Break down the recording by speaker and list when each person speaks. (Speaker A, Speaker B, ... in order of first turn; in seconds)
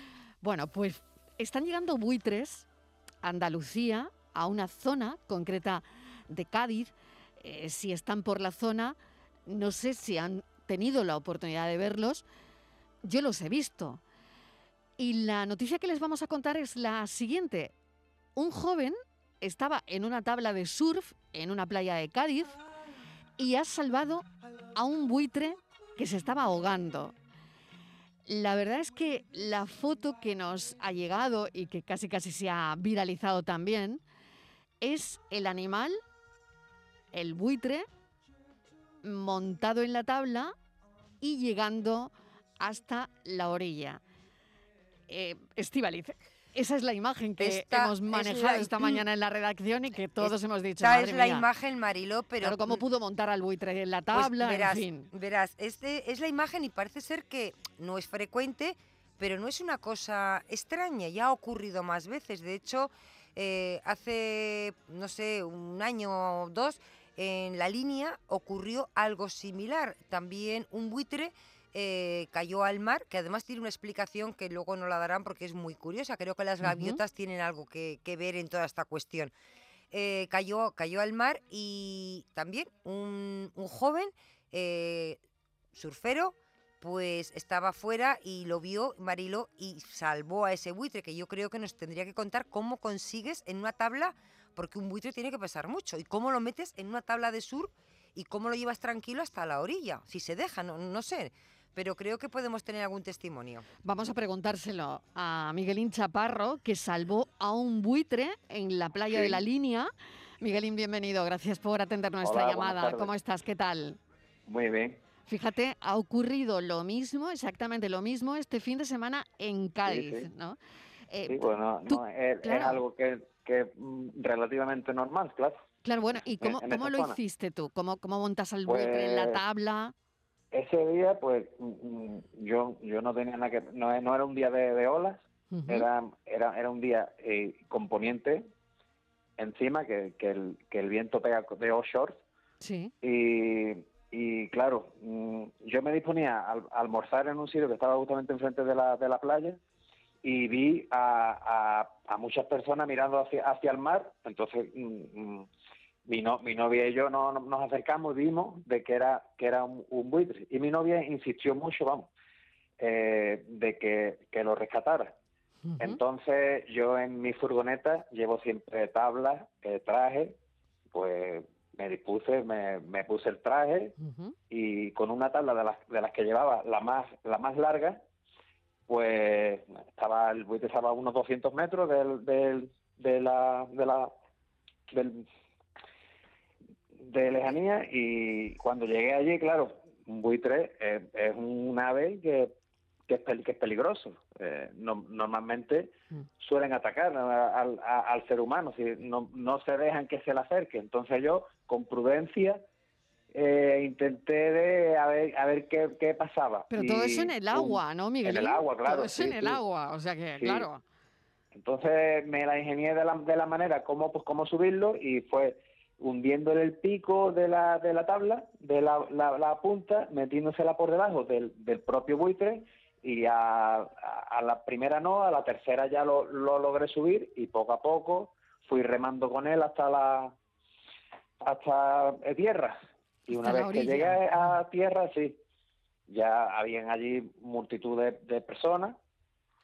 Speaker A: 0.4-2.7, 3.2-8.9, 9.4-12.2, 13.0-14.0, 15.0-17.7, 18.3-22.6, 23.4-27.1, 28.2-34.0, 34.8-36.0, 37.1-37.9, 39.0-40.5, 41.2-44.0, 45.1-51.5, 52.4-55.1, 76.6-77.0, 103.8-114.0, 115.3-120.6, 121.1-122.8, 125.8-129.9, 135.5-135.8, 142.6-142.9, 165.6-166.0, 174.0-174.3, 206.7-210.8, 233.3-234.2
Speaker B: 47.4-49.1, 50.2-52.8, 54.1-79.3, 79.9-85.2, 85.7-103.6
Speaker C: 109.1-109.4, 112.2-113.1, 114.5-115.0, 119.8-120.3, 121.3-125.6, 126.4-127.2, 128.7-129.4, 130.5-138.5, 139.4-142.2, 143.0-149.6, 150.2-155.5, 156.1-162.1, 162.8-165.1, 165.8-170.4, 170.9-173.9, 174.5-178.0, 178.9-184.1, 184.9-185.2, 187.0-192.5, 193.1-202.7, 203.3-209.6, 210.4-210.7, 211.5-230.3, 231.4-232.8, 233.3-235.4, 236.1-239.0